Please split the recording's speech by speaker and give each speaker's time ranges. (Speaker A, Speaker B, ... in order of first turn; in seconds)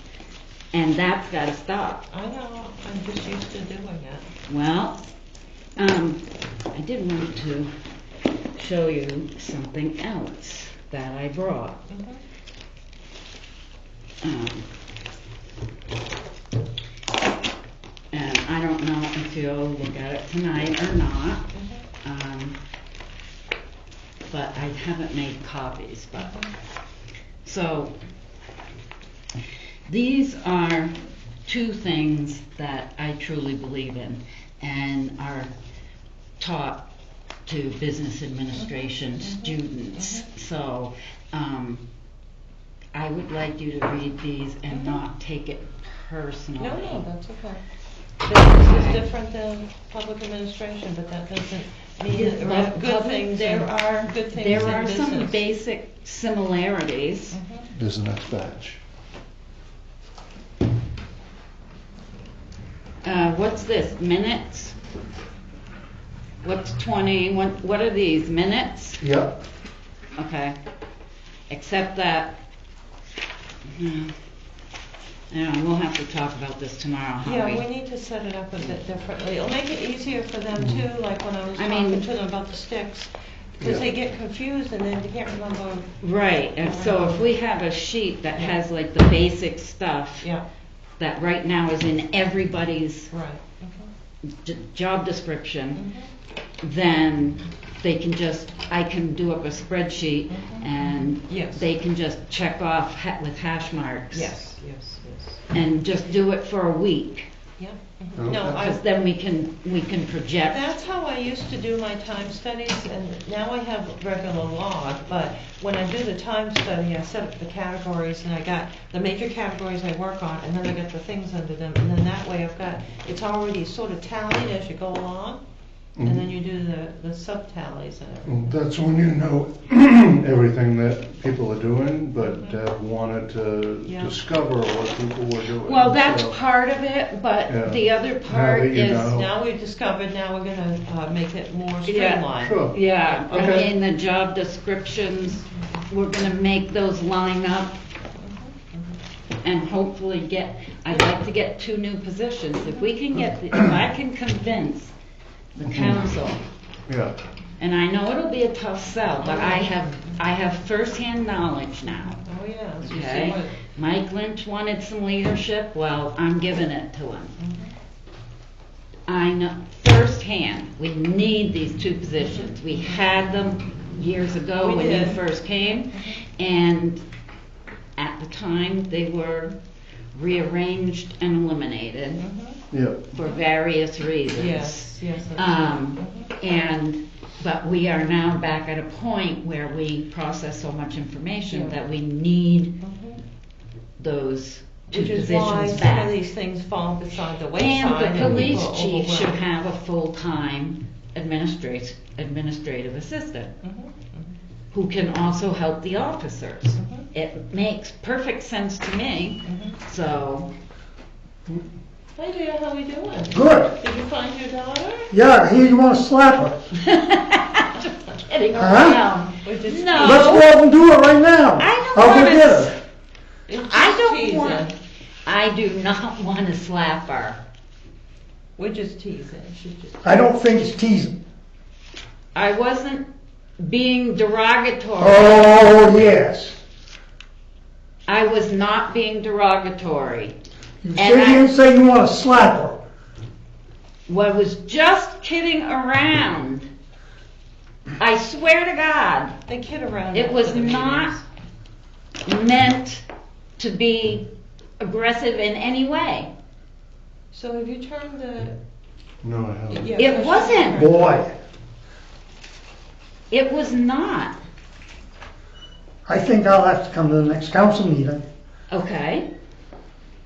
Speaker A: 0.7-2.0, 4.5-5.1, 5.8-7.7, 8.5-11.8, 14.2-14.7, 18.1-21.5, 22.0-22.6, 24.3-26.3, 27.4-27.9, 29.9-30.9, 31.4-35.5, 36.4-36.8, 37.5-41.8, 42.9-47.0, 48.5-49.0, 52.1-57.4, 63.0-64.8, 66.4-69.0, 70.2-70.5, 71.5-72.4, 73.7-74.1, 75.3-77.6, 81.6-82.0, 86.0-90.3, 91.0-93.1, 94.3-95.8, 96.6-104.3, 105.5-107.3, 108.5-110.6, 135.6-139.1, 141.8-147.8, 149.4-154.9, 155.6-156.4, 157.6-162.2, 162.8-167.3, 169.1-177.0, 177.9-179.6, 180.1-182.2, 183.1-192.7, 194.0-196.2, 197.6-203.5, 204.7-210.5, 216.8-220.5, 221.6-222.8, 223.6-224.7, 225.2-227.4, 232.3-233.1, 233.6-235.5, 238.1-240.3, 240.9-241.5, 244.1-246.7, 248.0-249.3, 250.1-251.1, 252.2-253.0, 253.6-254.3, 254.8-256.3, 260.0-260.9, 263.3-264.4, 268.7-269.3
Speaker B: 2.1-4.3, 11.9-12.2, 21.5-21.8, 26.2-26.5, 39.2-40.3, 44.7-45.0, 46.6-47.6, 48.2-55.4, 57.3-57.7, 77.2-87.3, 93.1-93.9, 95.8-96.1, 100.3-101.6, 104.1-105.4, 107.6-108.8, 110.4-125.4, 126.0-128.5, 132.2-132.6, 133.8-134.2, 139.1-143.5, 148.2-148.9, 159.2-159.8, 162.2-163.6, 167.4-167.7, 174.6-175.2, 182.2-182.6, 184.3-186.3, 191.5-191.8, 192.8-193.2, 194.9-199.4, 203.6-204.3, 206.8-207.0, 209.4-209.8, 212.2-215.1, 219.4-220.3, 223.5-224.7, 228.6-230.0, 249.5-251.2, 257.3-258.6, 259.7-261.1
Speaker C: 57.7-58.8, 69.0-69.3, 108.2-108.6, 128.2-136.3, 137.5-139.3, 142.4-142.7, 143.3-143.7, 155.7-156.0, 156.9-157.1, 182.7-183.0, 259.2-259.9
Speaker D: 213.3-213.7, 215.1-216.6, 218.5-219.0, 220.0-222.7, 230.0-231.1, 235.0-236.6, 240.8-242.8, 260.8-261.3, 266.1-268.2